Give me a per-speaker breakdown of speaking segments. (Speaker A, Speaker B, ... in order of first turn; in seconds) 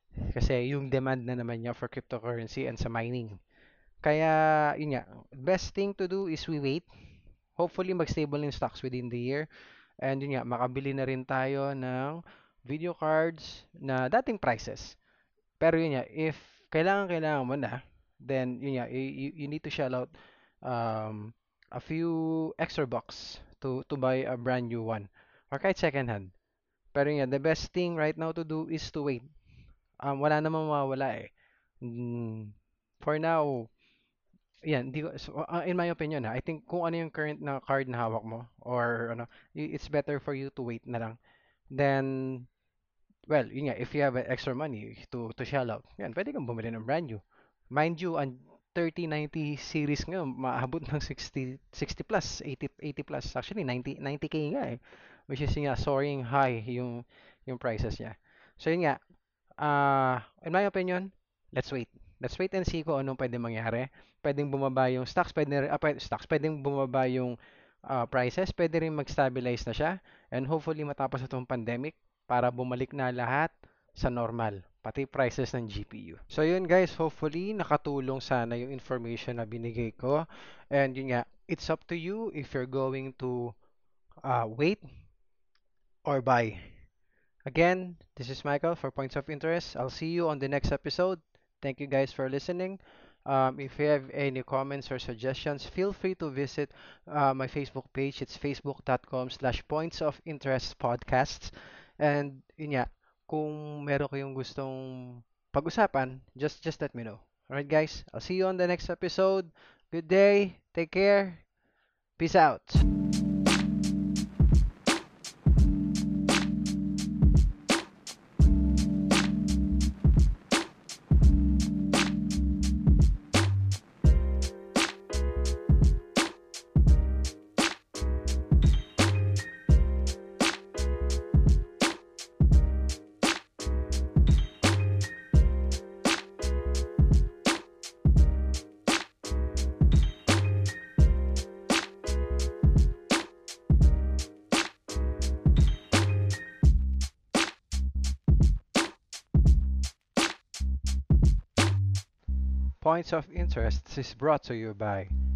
Speaker A: 0.3-3.4, 4.0-6.8, 7.6-9.5, 10.0-14.9, 15.6-20.1, 20.6-26.3, 26.9-29.3, 30.0-33.7, 34.6-41.2, 41.7-42.5, 43.3-59.0, 59.6-67.4, 67.9-83.5, 84.2-84.8, 86.0-86.7, 87.5-111.4, 112.2-112.8, 152.8-155.1